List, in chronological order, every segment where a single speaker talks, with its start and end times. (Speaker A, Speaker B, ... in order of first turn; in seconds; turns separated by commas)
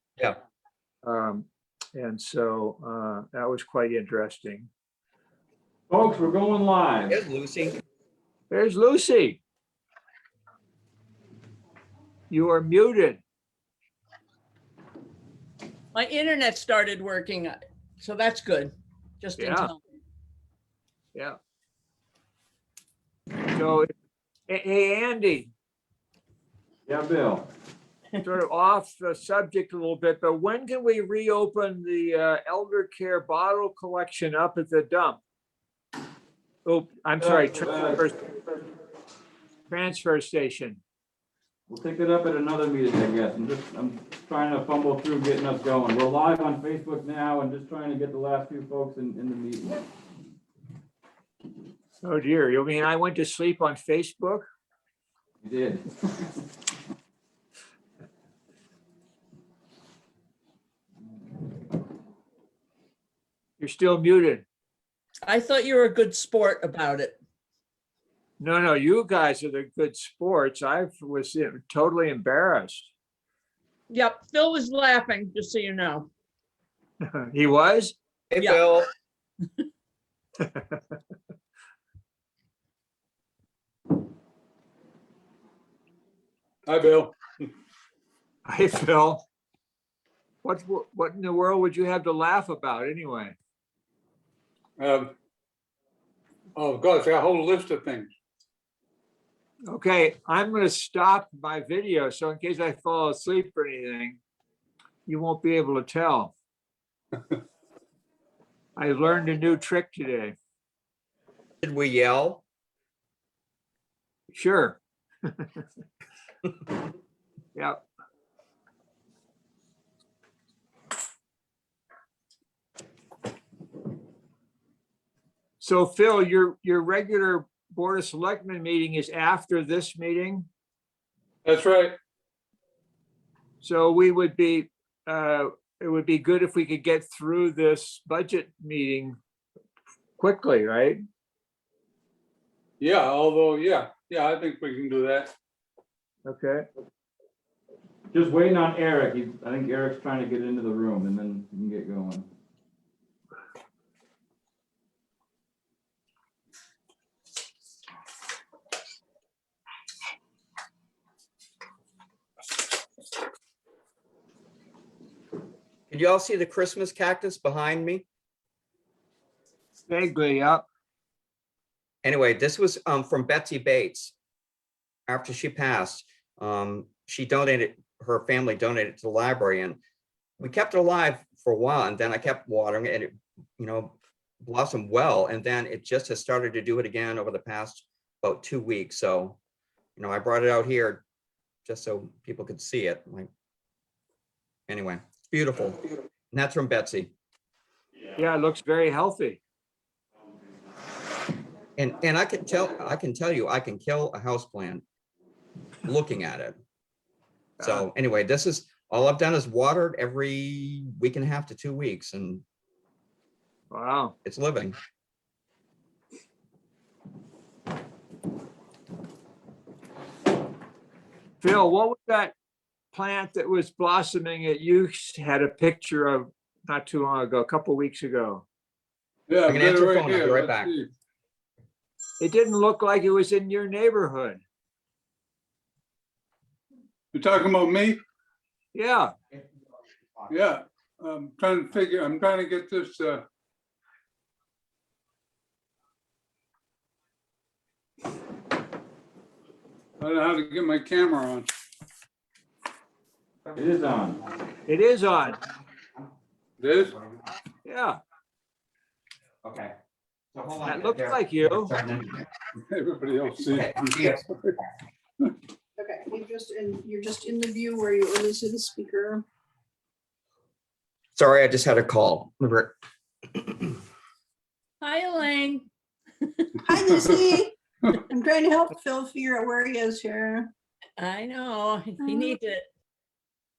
Speaker A: 1.0-4.7, Speaker B: 5.9-7.2, Speaker C: 7.1-7.8, Speaker A: 8.5-9.4, Speaker A: 12.3-13.2, Speaker D: 15.9-19.8, Speaker A: 19.4-19.7, Speaker A: 23.4-23.9, Speaker A: 24.5-25.5, Speaker B: 26.9-27.5, Speaker A: 28.2-35.2, Speaker A: 36.6-38.2, Speaker B: 37.2-38.0, Speaker A: 39.7-40.8, Speaker B: 41.7-49.9, Speaker A: 52.0-54.5, Speaker B: 55.4-56.3, Speaker A: 63.6-64.4, Speaker D: 65.3-67.2, Speaker A: 68.4-72.9, Speaker D: 73.9-76.1, Speaker A: 77.0-78.0, Speaker C: 78.3-78.9, Speaker D: 78.4-78.7, Speaker A: 80.4-80.8, Speaker E: 86.7-87.5, Speaker A: 88.5-89.2, Speaker A: 90.4-93.3, Speaker E: 94.8-95.1, Speaker E: 96.6-98.1, Speaker A: 99.7-104.2, Speaker A: 105.1-106.3, Speaker A: 108.8-110.4, Speaker C: 111.6-112.4, Speaker A: 114.3-115.6, Speaker A: 117.5-117.8, Speaker A: 125.6-130.5, Speaker E: 131.4-132.0, Speaker A: 133.6-139.2, Speaker A: 140.2-141.0, Speaker E: 142.8-145.3, Speaker A: 146.3-146.7, Speaker B: 148.1-152.3, Speaker C: 165.9-168.1, Speaker A: 169.9-170.7, Speaker C: 172.0-174.1, Speaker C: 175.1-179.8, Speaker C: 180.4-189.4, Speaker C: 190.0-191.0, Speaker C: 191.7-193.3, Speaker C: 194.7-197.1, Speaker A: 198.2-199.4, Speaker C: 201.8-204.8, Speaker C: 205.9-206.6, Speaker A: 207.6-207.9, Speaker C: 207.6-212.4, Speaker A: 213.7-214.1, Speaker C: 214.2-214.7, Speaker A: 221.4-222.3, Speaker A: 222.9-228.4, Speaker E: 229.3-230.9, Speaker C: 229.5-230.8, Speaker A: 232.2-234.4, Speaker E: 237.1-238.0, Speaker A: 238.7-239.1, Speaker E: 240.3-243.2, Speaker E: 250.0-251.5, Speaker B: 253.5-254.2, Speaker A: 254.7-255.4, Speaker E: 256.6-257.0, Speaker A: 257.6-258.0, Speaker C: 259.4-259.8, Speaker C: 260.3-262.2, Speaker A: 260.6-261.7, Speaker E: 262.7-264.2, Speaker C: 263.5-264.2, Speaker F: 265.8-269.2, Speaker C: 271.2-272.8, Speaker C: 273.3-273.7, Speaker D: 274.8-275.7, Speaker D: 276.2-276.6, Speaker F: 276.7-280.5, Speaker D: 281.0-282.6, Speaker F: 282.1-282.3